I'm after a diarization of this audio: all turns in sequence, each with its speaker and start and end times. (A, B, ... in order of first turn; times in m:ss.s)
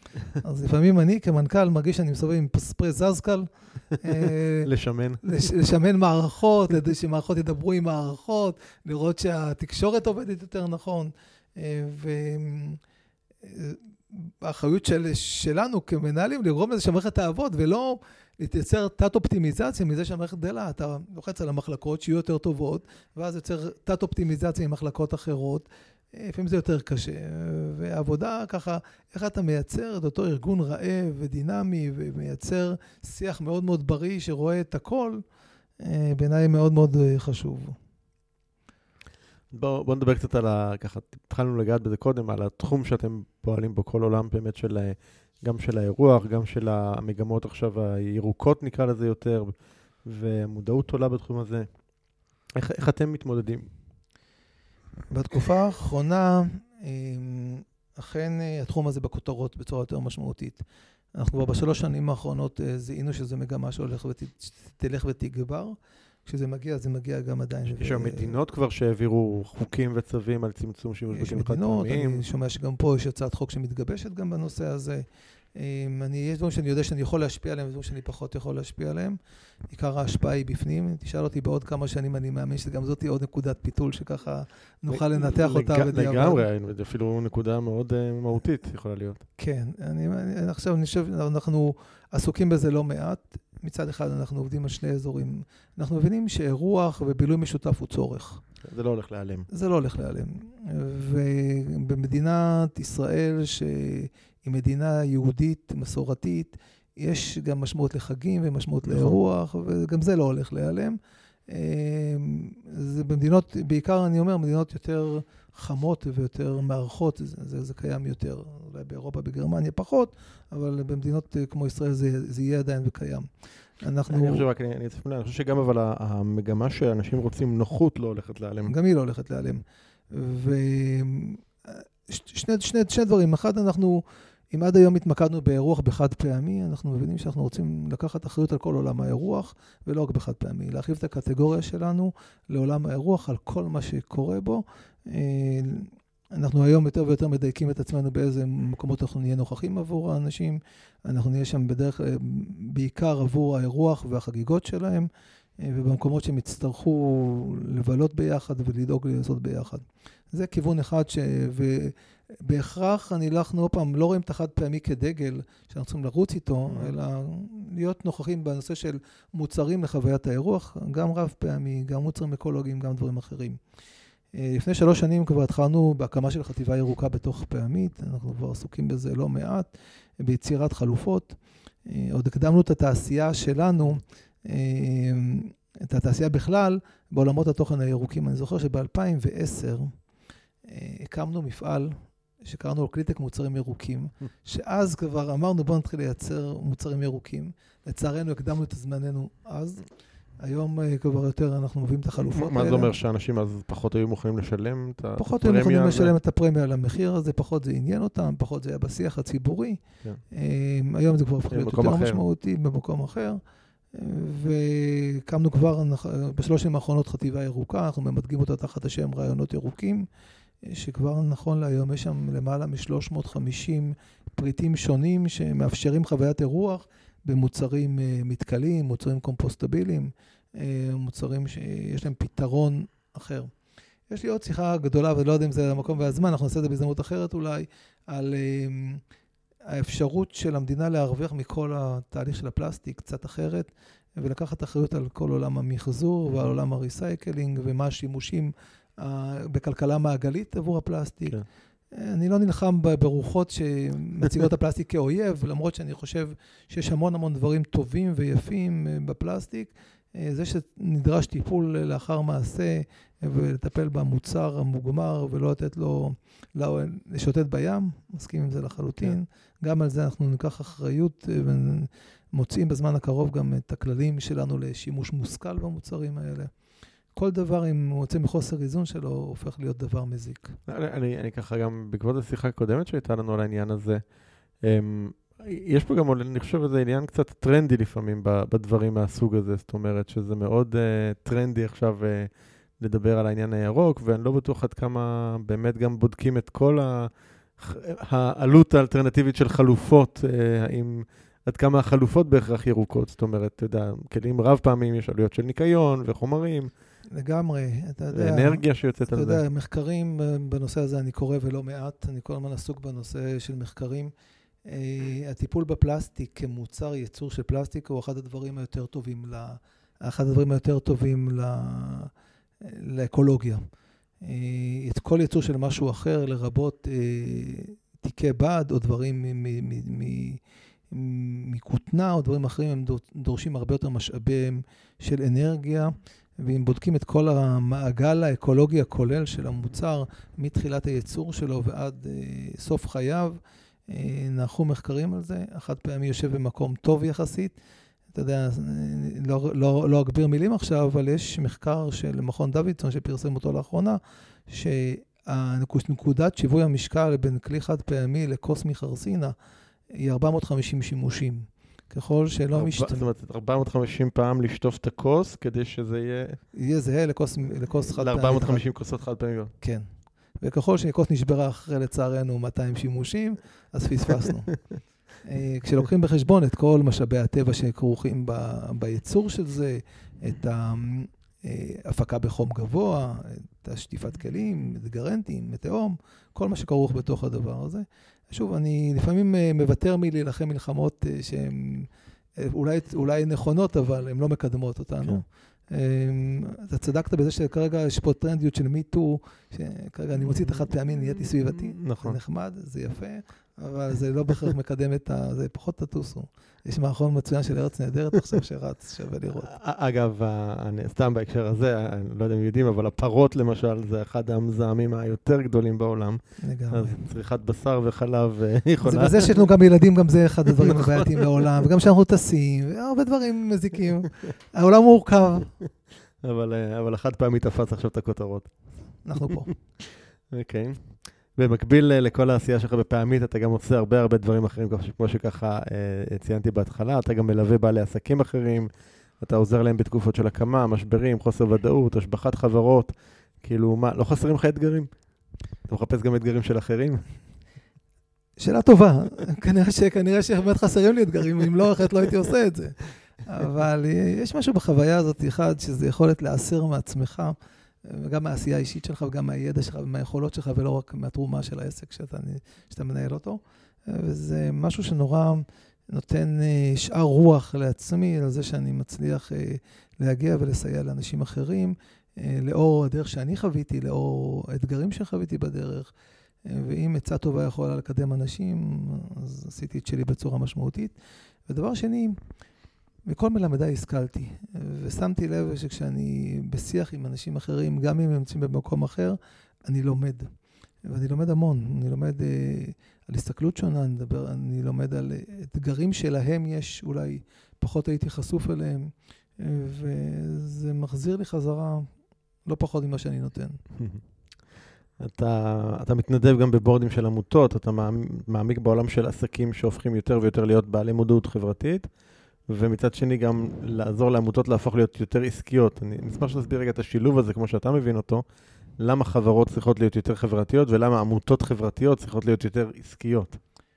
0:00.3-0:04.7 A
0:04.2-0:05.2 B
0:05.2-0:12.8 A
0:13.4-0:35.2 A
0:35.8-0:37.8 A
0:39.5-0:51.7 B
0:52.5-0:53.7 B
0:55.1-1:00.6 A
1:01.1-1:08.4 A
1:07.7-1:12.2 B
1:11.1-1:19.2 A
1:19.7-1:26.5 A
1:24.9-1:29.2 B
1:29.4-1:38.4 A
1:38.6-1:39.5 B
1:39.5-2:03.3 A
1:48.8-1:49.2 B
2:03.8-2:04.4 A
2:04.1-2:08.7 B
2:08.7-2:53.6 A
2:54.3-3:09.9 A
3:10.6-3:19.8 A
3:20.4-3:22.9 A
3:22.2-3:26.1 B
3:25.2-3:29.8 A
3:30.3-3:33.4 A
3:31.5-3:32.2 B
3:33.9-3:40.1 A
3:40.6-3:53.5 A
3:54.1-3:59.0 A
3:59.7-4:11.4 A
4:11.9-4:36.5 A
4:37.1-4:40.6 A
4:40.7-4:44.0 B
4:44.6-5:06.7 B
5:07.1-5:14.1 A
5:08.1-5:09.4 B
5:14.6-5:23.6 A
5:24.2-5:47.6 A
5:48.1-5:59.4 A
5:59.9-6:03.1 A
6:02.5-6:06.4 B
6:06.5-6:08.7 A
6:07.9-6:09.5 B
6:09.6-6:09.9 A
6:10.4-6:14.5 A
6:15.2-6:49.5 A
6:41.5-6:42.2 B
6:49.4-6:59.4 B
6:56.4-6:57.0 A
6:58.8-7:05.6 A
7:00.6-7:01.5 B
7:06.2-7:08.5 B
7:09.0-7:09.5 A
7:10.3-7:18.7 B
7:19.2-7:24.9 B
7:25.7-7:27.0 B
7:28.4-7:55.9 A
7:56.4-8:01.0 A
8:01.5-8:02.2 A
8:03.1-8:10.3 A
8:10.9-8:21.9 A
8:22.4-8:23.6 A
8:23.8-8:24.0 B
8:25.0-8:31.9 B
8:32.5-8:38.2 B
8:38.8-8:43.4 B